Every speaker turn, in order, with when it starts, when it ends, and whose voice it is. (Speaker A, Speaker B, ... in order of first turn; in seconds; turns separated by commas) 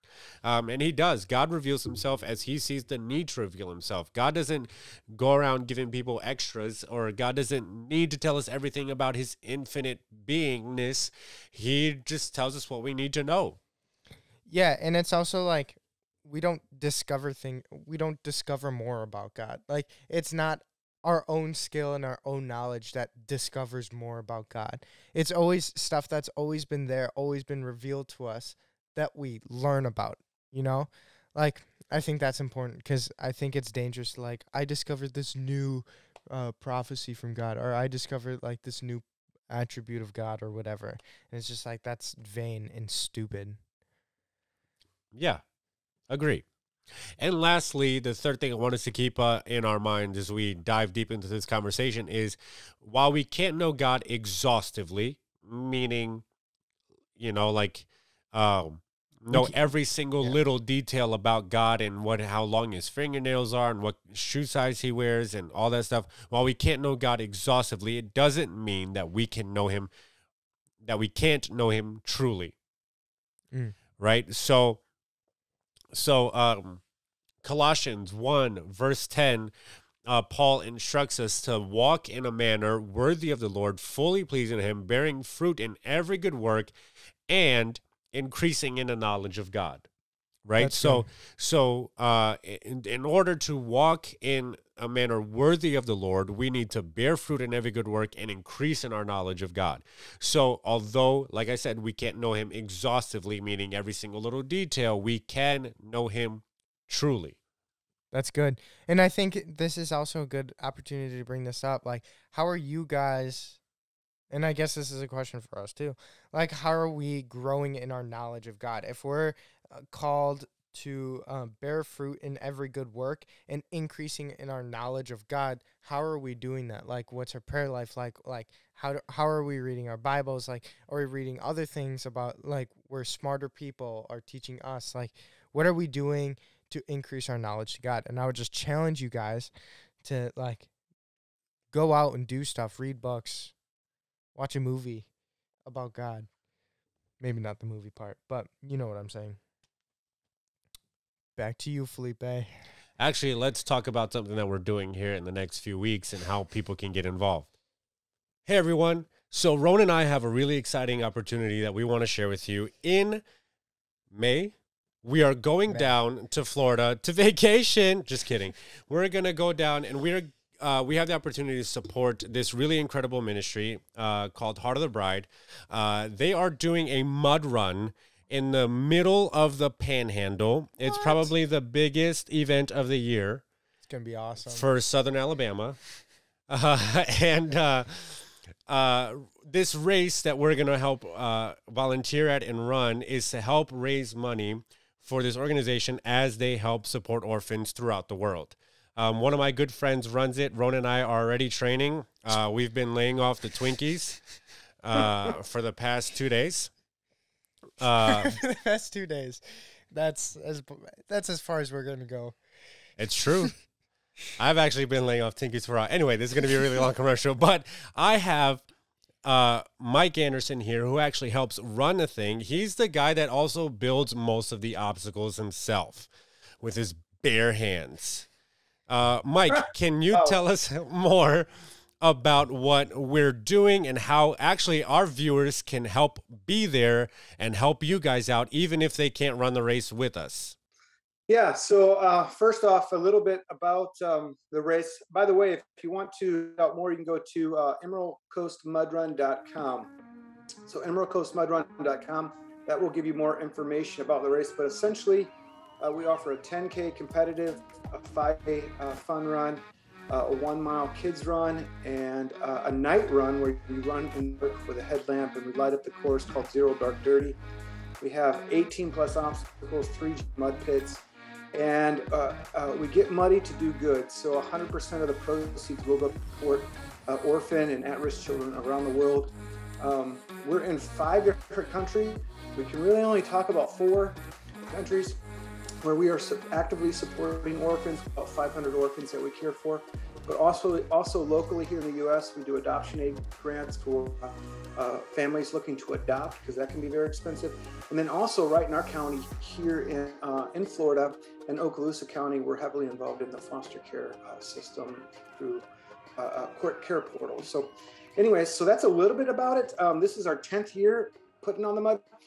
Speaker A: 0.4-13.6, Speaker B: 14.5-43.6, Speaker A: 45.1-45.4, Speaker A: 46.1-46.4, Speaker A: 47.2-56.2, Speaker A: 57.2-69.9, Speaker B: 59.3-59.6, Speaker A: 70.8-72.5, Speaker B: 73.5-73.8, Speaker A: 74.0-74.8, Speaker A: 75.9-76.8, Speaker A: 77.4-79.5, Speaker A: 80.0-86.7, Speaker A: 87.3-89.9, Speaker A: 90.4-107.3, Speaker B: 90.6-91.1, Speaker B: 108.1-113.6, Speaker B: 114.3-139.5, Speaker B: 140.0-140.7, Speaker B: 141.7-143.5, Speaker B: 144.3-145.1, Speaker B: 145.6-146.3, Speaker B: 147.2-149.4, Speaker B: 151.3-152.5, Speaker A: 153.0-157.5, Speaker A: 158.4-163.2, Speaker A: 164.1-183.4, Speaker B: 180.8-181.3, Speaker B: 183.8-184.7, Speaker A: 184.4-185.8, Speaker A: 186.5-204.2, Speaker A: 204.8-206.7, Speaker A: 207.8-208.4, Speaker B: 208.0-212.3, Speaker A: 213.0-213.5, Speaker A: 214.4-218.6, Speaker A: 219.2-226.1, Speaker A: 226.6-228.3, Speaker A: 228.9-231.5, Speaker C: 229.5-230.4, Speaker A: 232.0-240.6, Speaker C: 241.3-249.9, Speaker C: 250.7-267.4, Speaker C: 268.0-285.2, Speaker C: 285.8-305.6, Speaker C: 306.2-312.0